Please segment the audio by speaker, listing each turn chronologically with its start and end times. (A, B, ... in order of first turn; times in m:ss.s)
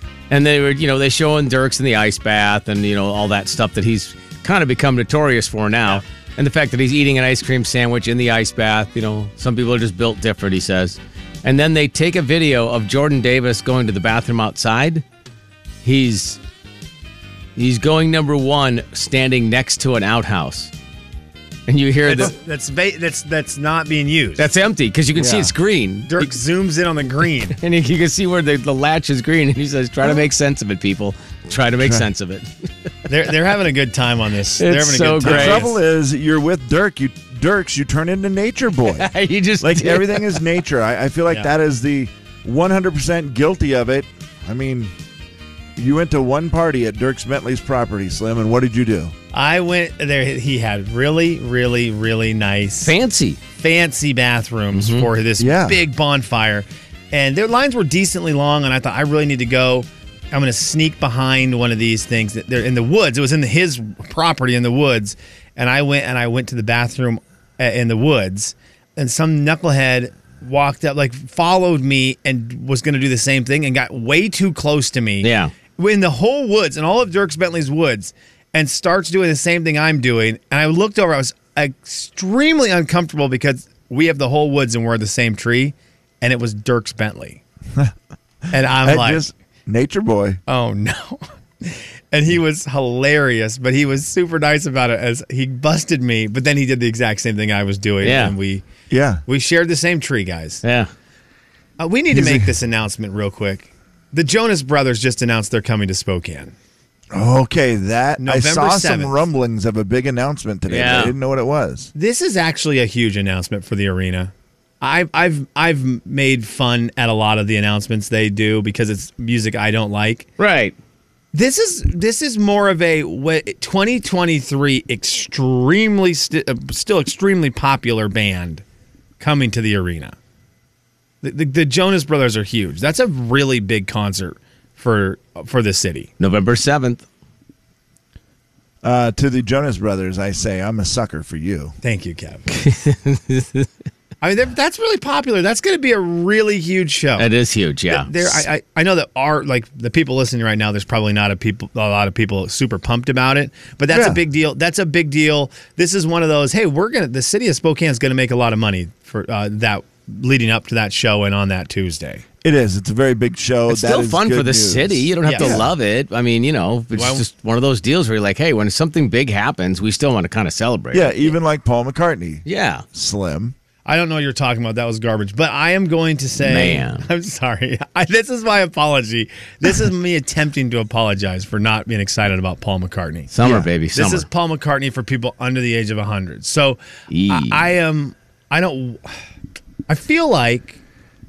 0:00.3-0:15.0 A
0:15.8-0:16.4 A
0:17.6-0:20.7 A
0:21.7-0:22.3 A
0:22.0-0:24.5 B
0:24.4-0:26.3 A
0:25.1-0:25.5 C
0:26.1-0:27.6 B
0:27.6-0:32.5 A
0:31.8-0:32.1 C
0:33.1-0:35.8 B
0:34.6-0:35.7 A
0:35.2-0:44.9 C
0:38.9-0:40.4 A
0:45.8-0:49.1 C
0:49.3-0:52.9 B
0:52.8-0:53.4 A
0:53.6-1:27.4 B
0:54.7-0:55.1 A
0:55.4-0:55.8 C
1:15.2-1:15.5 A
1:28.5-1:29.2 B
1:28.8-1:30.4 C
1:30.5-1:38.6 B
1:38.0-1:38.4 A
1:38.9-1:39.2 C
1:39.3-1:40.6 B
1:40.6-1:40.9 A
1:41.8-1:46.5 B
1:42.1-1:42.5 C
1:47.1-1:51.9 C
1:48.2-1:49.2 B
1:50.7-1:51.1 A
1:52.0-2:00.3 B
2:00.4-2:00.8 A
2:01.3-2:08.6 B
2:09.2-2:10.2 B
2:11.2-2:16.1 B
2:16.2-2:17.0 A
2:18.8-2:21.8 C
2:21.8-2:22.4 B
2:22.5-2:23.7 A
2:24.2-2:27.3 B
2:27.2-2:28.4 A
2:27.9-2:42.2 B
2:33.9-2:34.2 C
2:42.4-2:45.7 C
2:43.7-2:51.3 A
2:45.2-2:45.6 B
2:46.9-2:47.2 B
2:50.9-2:53.6 C
2:52.5-2:52.8 A
2:53.9-3:03.3 B
2:56.4-2:57.0 A
3:03.3-3:04.3 A
3:03.4-3:03.7 C
3:03.9-3:09.2 B
3:07.1-3:07.7 A
3:09.9-3:10.8 B